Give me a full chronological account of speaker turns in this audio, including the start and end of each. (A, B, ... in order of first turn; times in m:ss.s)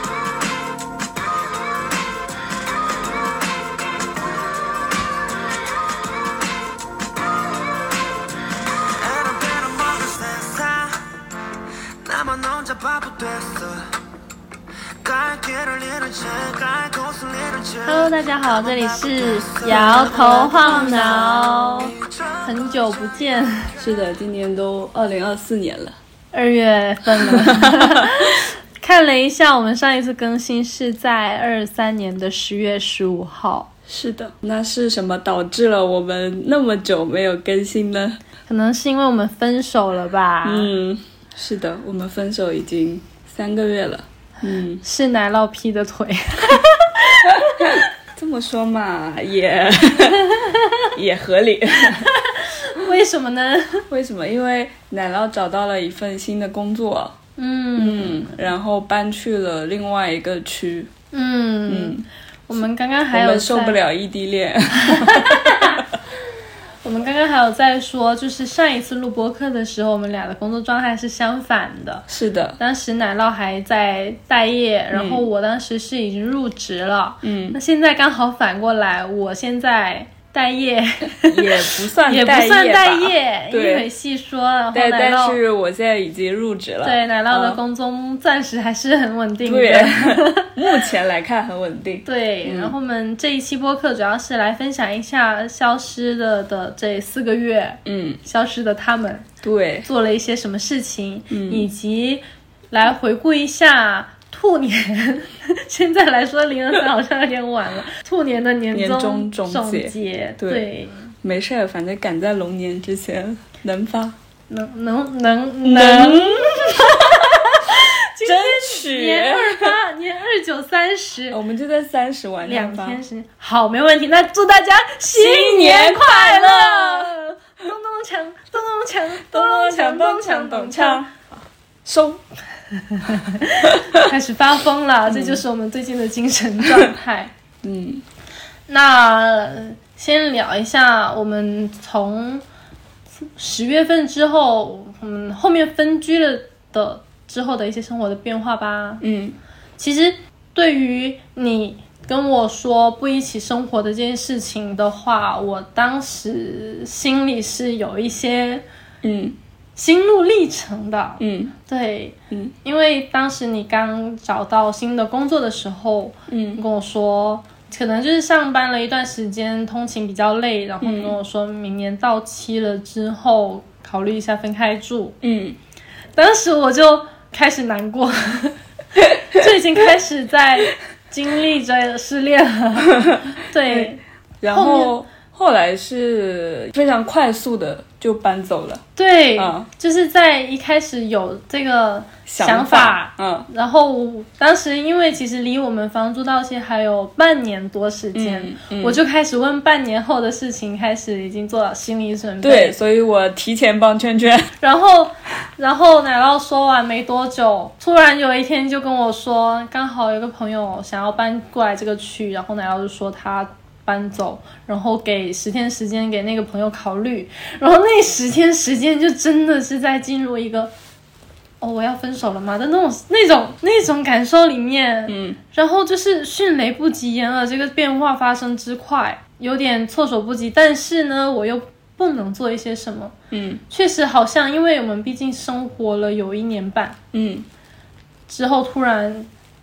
0:08.8-0:11.1 A
0:12.0-0:14.0 A
0:15.0-0:23.2 A
0:17.8-0:23.7 B
0:19.7-0:21.4 C
0:23.8-0:26.0 C
0:26.3-0:33.7 B
0:27.1-0:28.3 C
0:33.9-0:38.2 C
0:38.5-0:40.7 B
0:40.4-0:44.8 C
0:44.8-0:47.7 B
0:47.3-0:50.4 C
0:50.4-0:50.9 B
0:50.9-0:52.1 C
0:52.0-0:53.9 B
0:53.9-0:57.2 C
0:57.4-0:58.2 B
0:57.8-1:00.9 C
1:01.1-1:03.8 B
1:01.7-1:02.6 C
1:03.1-1:05.8 C
1:04.8-1:05.8 B
1:06.8-1:12.0 B
1:12.1-1:12.6 C
1:12.6-1:25.4 B
1:14.9-1:15.2 C
1:17.2-1:17.6 C
1:21.2-1:23.9 C
1:24.7-1:27.6 C
1:26.8-1:30.5 B
1:29.4-1:32.7 C
1:32.0-1:39.3 B
1:37.8-1:38.2 C
1:39.4-1:39.9 C
1:39.8-1:51.1 B
1:41.3-1:41.6 C
1:48.7-1:50.6 C
1:51.2-1:54.2 C
1:54.5-2:01.4 B
1:55.6-1:59.8 C
2:01.3-2:03.0 C
2:02.4-2:11.0 B
2:05.1-2:07.1 C
2:09.3-2:12.2 C
2:12.8-2:17.3 B
2:15.1-2:15.4 C
2:17.6-2:18.0 C
2:18.7-2:22.4 B
2:23.2-2:29.0 B
2:29.0-2:29.4 C
2:29.8-2:38.6 B
2:39.0-2:39.4 C
2:39.8-2:55.2 B
2:41.2-2:41.5 C
2:46.3-2:46.6 C
2:50.8-2:51.2 C
2:55.2-2:55.6 C
2:56.2-2:58.6 B
2:59.1-2:59.4 C
2:59.1-3:04.0 B
3:03.0-3:09.7 C
3:04.5-3:04.9 B
3:09.0-3:22.8 B
3:12.3-3:13.5 C
3:18.1-3:19.0 C
3:22.4-3:24.5 C
3:24.6-3:40.7 B
3:41.6-3:53.1 B
3:45.1-3:45.4 C
3:53.3-3:53.6 C
3:53.7-3:57.0 B
3:57.1-3:57.4 C
3:58.3-3:59.3 B